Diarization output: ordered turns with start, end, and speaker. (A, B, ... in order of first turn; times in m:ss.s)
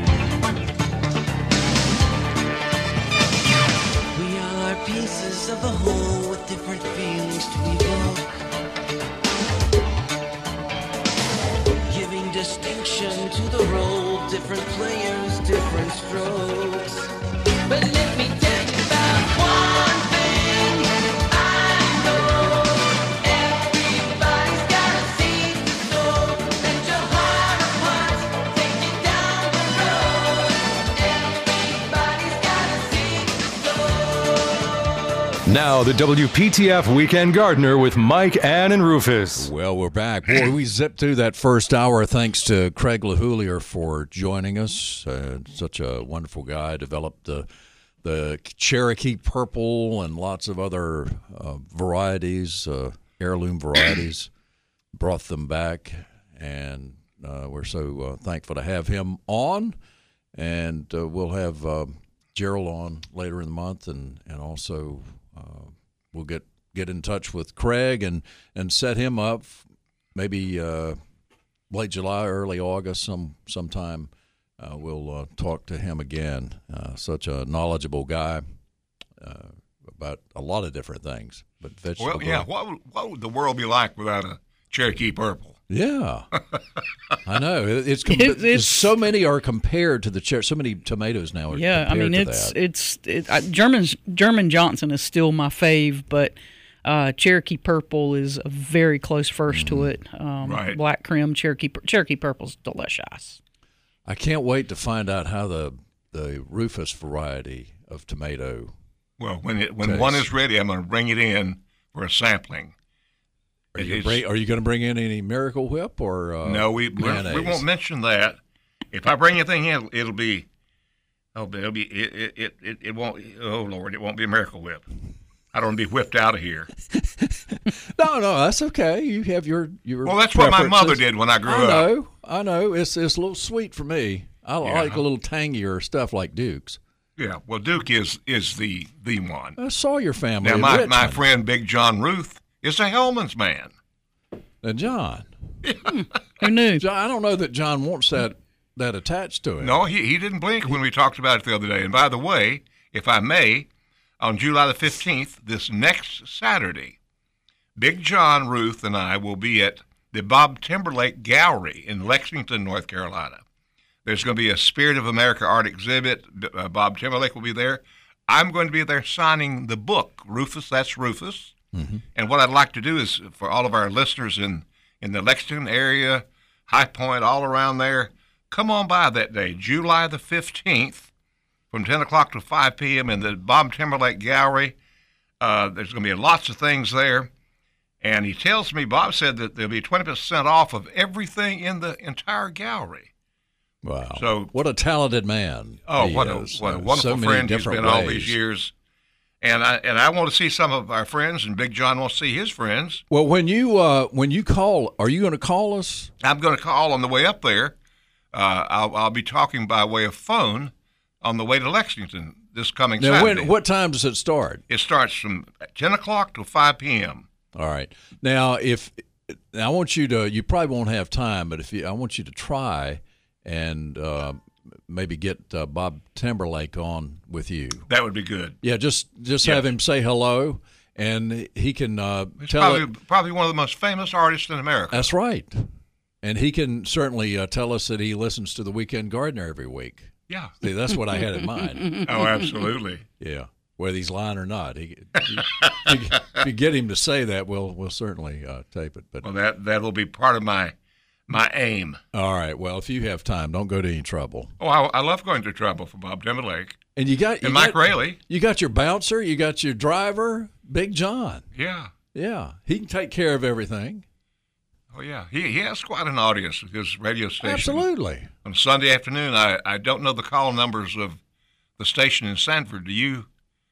0:04.1-0:08.3 A
0:11.9-0:17.1 A
0:17.7-0:34.7 A
0:35.5-0:39.5 B
0:39.4-0:47.5 C
0:48.0-0:54.3 C
0:55.0-0:59.8 C
1:00.3-1:11.0 C
1:11.7-1:18.4 C
1:19.2-1:22.5 C
1:22.0-1:25.6 D
1:25.7-1:26.3 C
1:27.2-1:32.6 C
1:28.1-1:28.9 E
1:31.5-1:36.3 E
1:36.8-1:43.4 E
1:39.5-1:39.9 C
1:40.4-1:40.8 D
1:44.1-1:48.8 C
1:49.2-1:52.7 D
1:49.8-1:50.3 C
1:53.8-1:57.6 C
1:53.8-1:54.2 D
1:56.4-1:58.4 D
1:58.9-2:00.5 D
2:01.4-2:04.8 D
2:05.5-2:06.7 D
2:07.2-2:16.8 C
2:10.0-2:11.9 D
2:14.6-2:15.0 D
2:17.2-2:19.6 D
2:19.6-2:21.2 C
2:20.4-2:23.7 D
2:24.6-2:25.3 C
2:25.9-2:26.8 E
2:26.8-2:29.8 C
2:29.6-2:33.7 D
2:34.2-2:37.0 D
2:37.8-2:43.4 D
2:44.0-2:51.6 D
2:51.7-2:52.0 C
2:52.2-3:01.1 D
3:01.7-3:04.8 D
3:05.4-3:07.3 D
3:08.0-3:13.1 D
3:13.8-3:18.4 C
3:14.2-3:14.5 D
3:15.9-3:18.7 D
3:19.4-3:23.0 D
3:23.1-3:26.1 C
3:26.2-3:27.8 D
3:28.3-3:33.5 D
3:33.0-3:34.6 C
3:34.7-3:37.3 D
3:37.6-3:47.9 C
3:47.9-3:48.6 D
3:48.6-3:52.9 C
3:52.4-3:55.1 D
3:54.9-3:55.7 C
3:56.2-4:02.0 C
4:00.3-4:00.6 D
4:02.0-4:03.0 D
4:03.2-4:09.3 C
4:09.2-4:10.8 D
4:11.3-4:12.0 D
4:12.1-4:14.5 C
4:14.6-4:16.8 D
4:17.0-4:21.4 C
4:17.4-4:18.2 D
4:21.6-4:21.9 D
4:22.1-4:24.0 C
4:24.9-4:27.8 D
4:27.4-4:28.3 C
4:28.4-4:31.2 D
4:31.8-4:33.3 D